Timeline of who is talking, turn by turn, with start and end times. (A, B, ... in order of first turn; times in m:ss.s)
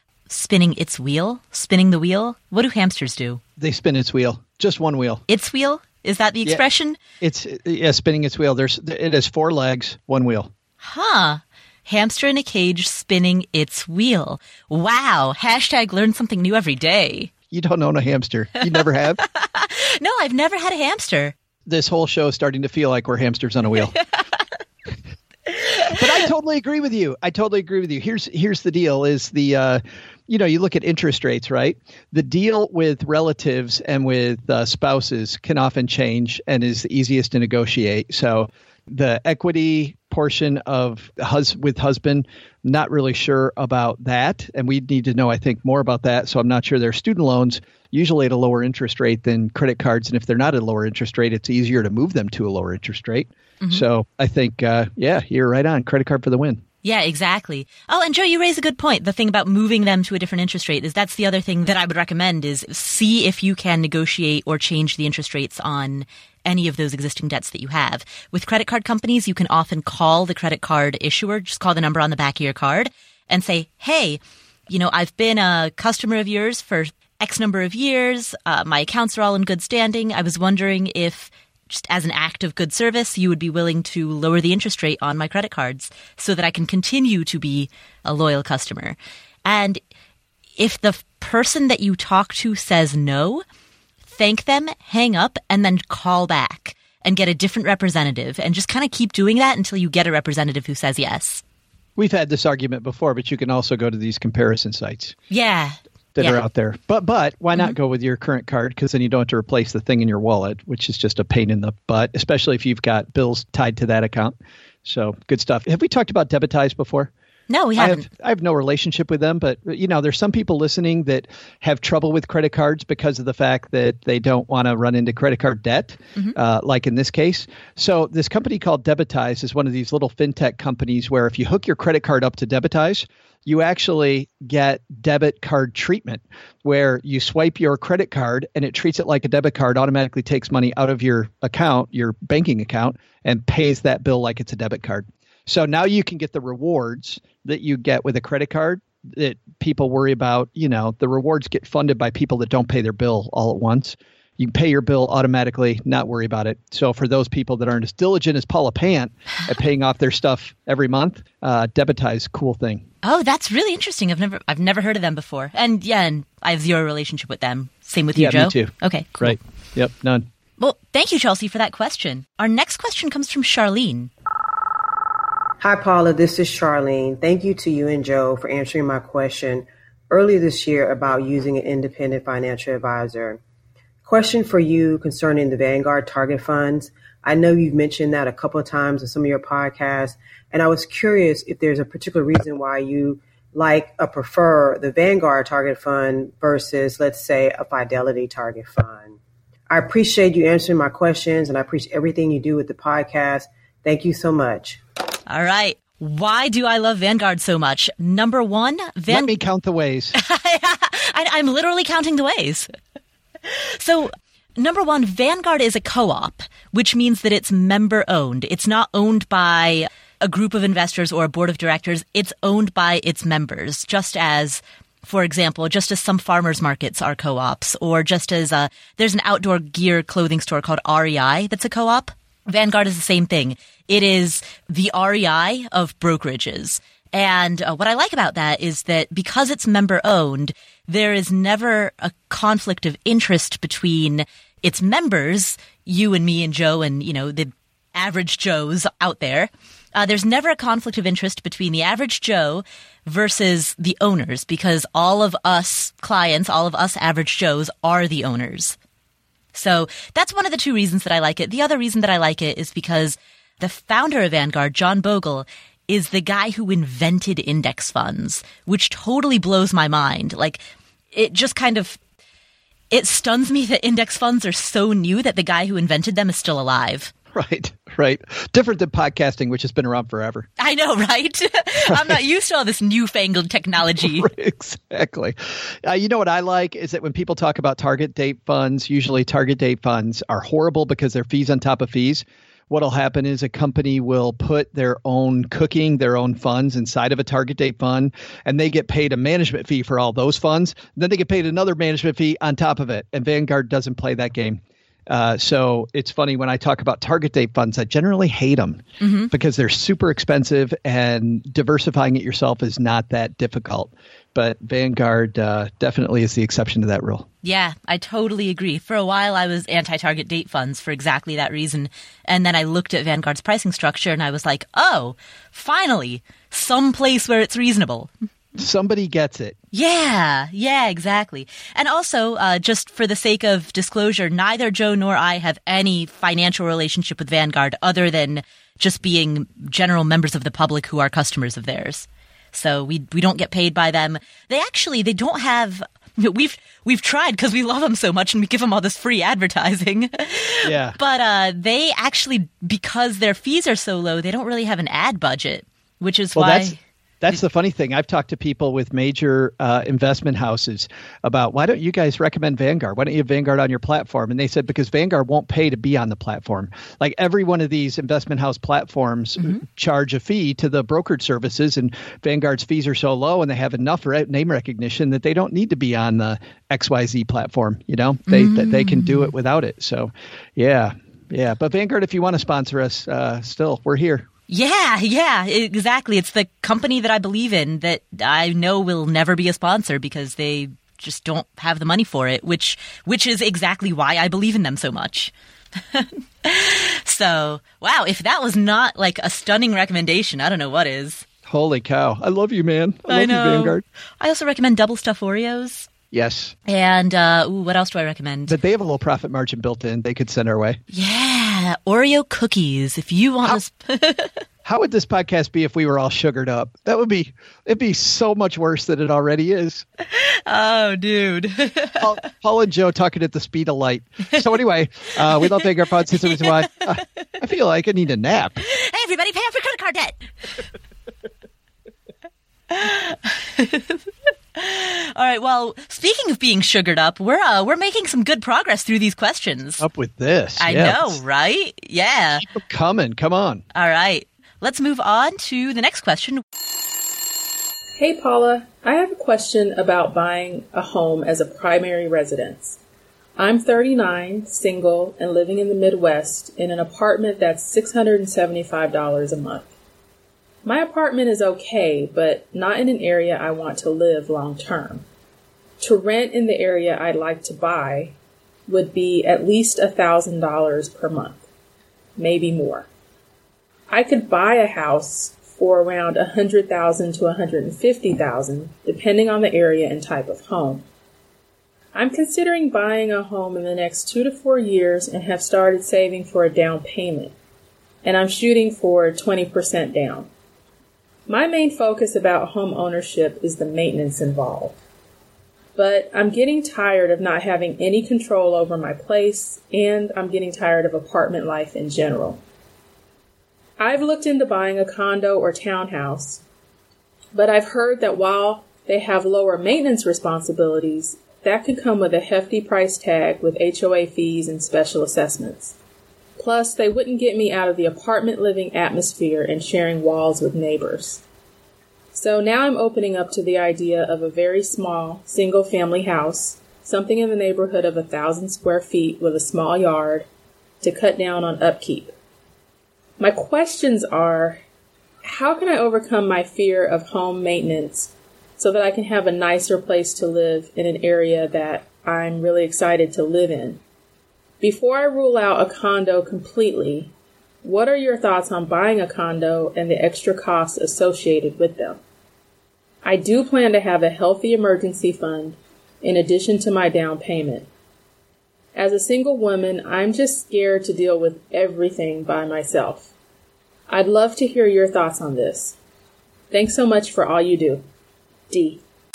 0:00.3-0:03.4 A
0:03.6-0:05.2 B
0:05.3-0:07.0 A
0:07.2-0:10.5 B
0:10.8-0:17.3 A
0:17.5-0:19.2 B
0:18.7-0:21.4 A
0:21.7-0:23.9 B
0:25.5-0:26.0 A
0:25.9-0:56.6 B
0:56.8-1:29.8 A
1:30.6-1:33.4 A
1:34.1-1:41.4 A
1:42.0-1:45.2 B
1:45.3-1:46.4 A
1:46.2-1:57.1 B
1:57.5-1:58.1 A
1:57.8-2:42.8 B
2:43.0-2:49.4 A
2:48.2-2:50.3 B
2:50.6-2:54.1 A
2:55.6-3:03.4 C
3:04.0-3:19.2 C
3:19.7-3:24.8 C
3:25.3-3:29.3 A
3:29.1-3:30.2 B
3:30.2-3:32.7 A
3:33.4-4:18.8 A
4:19.5-4:30.6 A
4:31.1-4:32.0 A
4:32.9-4:37.1 A
4:37.3-4:40.5 B
4:40.6-4:44.3 A
4:41.8-4:42.2 B
4:44.0-5:17.3 B
5:09.0-5:09.3 A
5:17.4-5:28.1 A
5:28.6-5:29.6 B
5:29.7-5:56.8 A
5:50.6-5:51.0 B
5:56.4-6:24.3 B
6:18.3-6:19.3 A
6:24.5-6:35.3 A
6:35.9-6:41.2 A
6:41.5-6:43.8 B
6:43.1-6:45.9 A
6:46.1-6:46.6 B
6:46.7-6:48.6 A
6:48.5-6:50.8 B
6:50.9-6:54.4 A
6:54.6-6:59.8 B
7:00.1-7:02.1 A
7:02.0-7:08.6 B
7:05.3-7:06.6 A
7:08.6-7:10.2 A
7:12.7-7:14.0 A
7:14.6-7:19.9 A
7:19.8-7:21.2 B
7:20.6-7:22.5 A
7:22.4-7:23.6 B
7:23.7-7:26.4 A
7:28.0-7:32.8 D
7:33.4-7:39.7 D
7:40.6-7:45.0 D
7:45.8-7:48.1 D
7:48.7-7:51.4 D
7:52.2-7:52.9 D
7:53.9-8:00.8 D
8:01.9-8:07.3 D
8:08.0-8:10.3 D
8:11.3-8:14.8 D
8:15.8-8:22.4 D
8:23.8-8:26.4 D
8:27.4-8:35.8 D
8:36.4-8:41.2 D
8:42.1-8:50.3 D
8:50.8-8:52.1 D
8:53.2-8:54.6 D
8:55.2-9:03.8 D
9:04.6-9:07.1 D
9:07.6-9:12.0 D
9:13.0-9:17.7 D
9:18.8-9:23.1 D
9:23.9-9:25.8 D
9:26.5-9:27.8 D
9:28.5-9:28.8 D